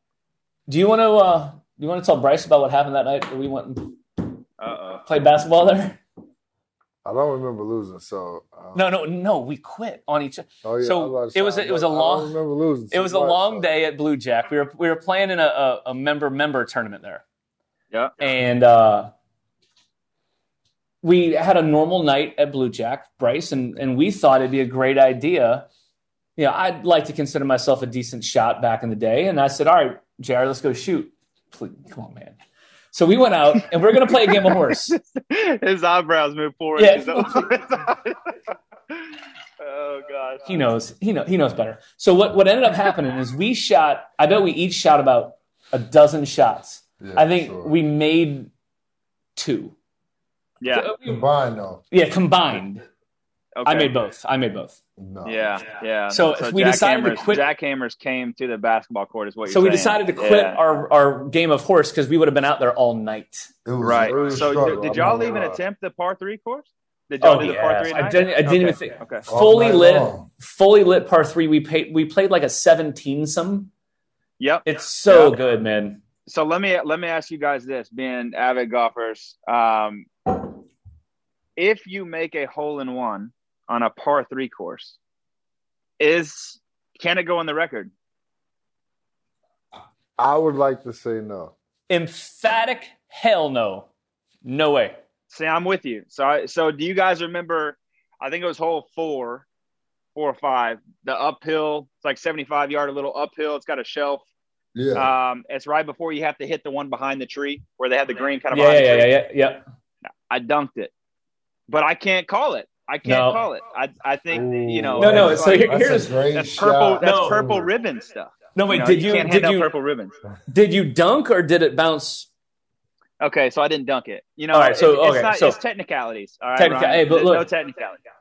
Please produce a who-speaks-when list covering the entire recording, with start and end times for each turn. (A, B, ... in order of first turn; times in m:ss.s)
0:00.7-0:04.3 A
0:04.6-0:05.0 B
0:05.0-0:06.0 A
0:07.0-0:08.8 C
0:08.7-0:12.4 A
0:10.6-0:13.7 C
0:12.9-0:17.2 A
0:17.9-0:18.2 B
0:18.2-0:19.1 A
0:21.0-0:25.7 A
0:26.4-0:32.4 A
0:32.9-0:35.0 A
0:34.1-0:38.4 B
0:36.8-0:37.5 A
0:38.9-0:40.5 B
0:40.5-0:48.5 A
0:47.0-0:47.7 C
0:49.4-0:49.8 A
0:50.6-0:50.9 B
0:50.6-0:51.2 A
0:51.0-0:51.8 C
0:51.9-0:52.8 A
0:53.6-0:53.9 B
0:53.6-0:54.8 A
0:55.0-0:55.6 C
0:55.2-1:00.6 B
0:56.1-0:57.5 A
0:59.5-1:03.5 A
1:03.6-1:05.6 C
1:03.8-1:09.3 B
1:07.2-1:13.7 A
1:09.3-1:10.3 C
1:14.4-1:15.4 B
1:14.6-1:16.0 A
1:16.2-1:20.3 B
1:21.6-1:25.0 B
1:26.0-1:27.9 B
1:30.2-1:31.5 C
1:31.9-1:33.9 A
1:34.4-1:35.0 A
1:35.3-1:39.4 B
1:40.1-1:44.2 B
1:44.7-1:45.1 C
1:44.9-1:49.1 B
1:48.5-1:49.6 A
1:50.3-1:50.9 B
1:51.7-2:00.1 B
1:53.0-1:53.4 A
1:54.3-1:57.7 C
1:55.0-1:56.2 A
1:57.0-1:57.4 A
1:58.5-1:59.7 A
2:00.5-2:02.3 A
2:03.2-2:08.0 B
2:04.5-2:05.6 A
2:06.6-2:07.4 A